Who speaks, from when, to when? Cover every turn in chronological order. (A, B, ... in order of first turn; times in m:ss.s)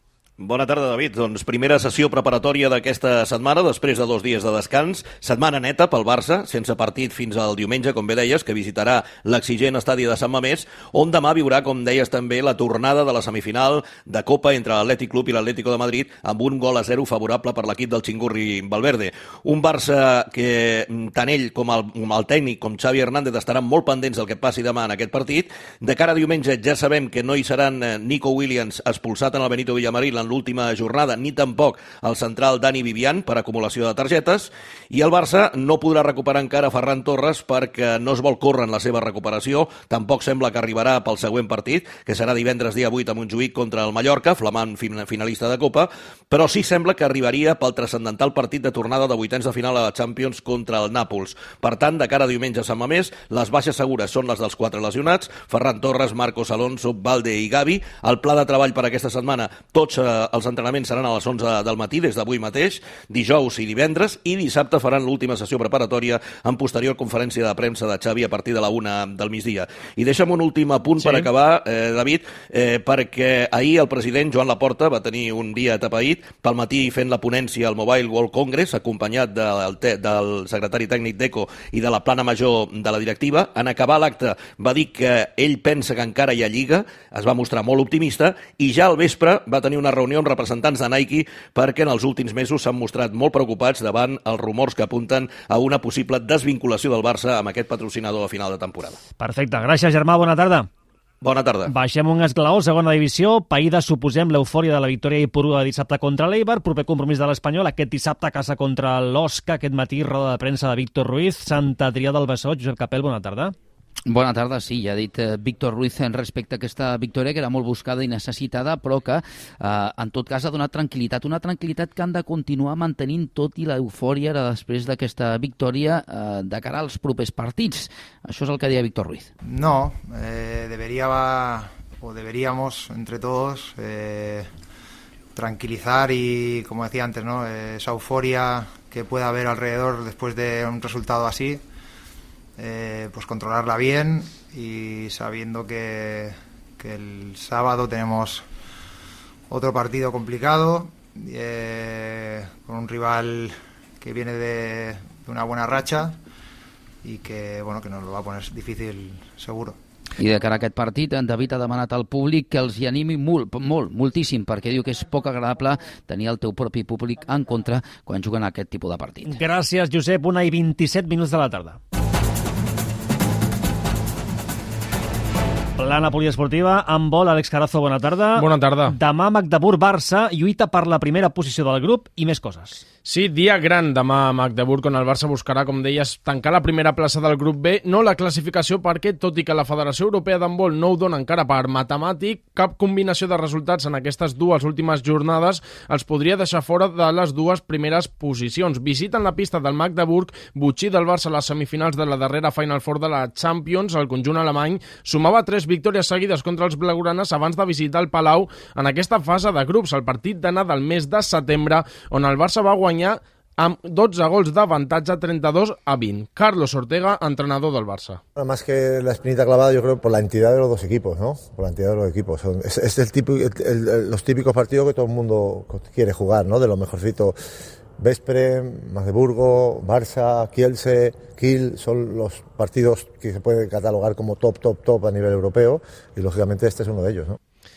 0:00.4-1:39.0 A
1:11.0-1:11.3 B
1:39.2-1:40.7 B
1:41.2-1:41.7 A
1:41.7-1:53.5 B
1:54.1-2:09.2 C
2:09.4-2:14.5 D
2:15.4-2:21.6 D
2:22.6-2:28.4 D
2:29.5-2:36.2 D
2:37.0-2:39.8 D
2:40.2-2:49.0 C
2:49.3-2:51.8 B
2:55.8-3:02.8 B
2:58.4-2:59.0 E
3:03.0-3:38.2 E
3:38.4-3:47.4 F
3:48.0-3:57.4 F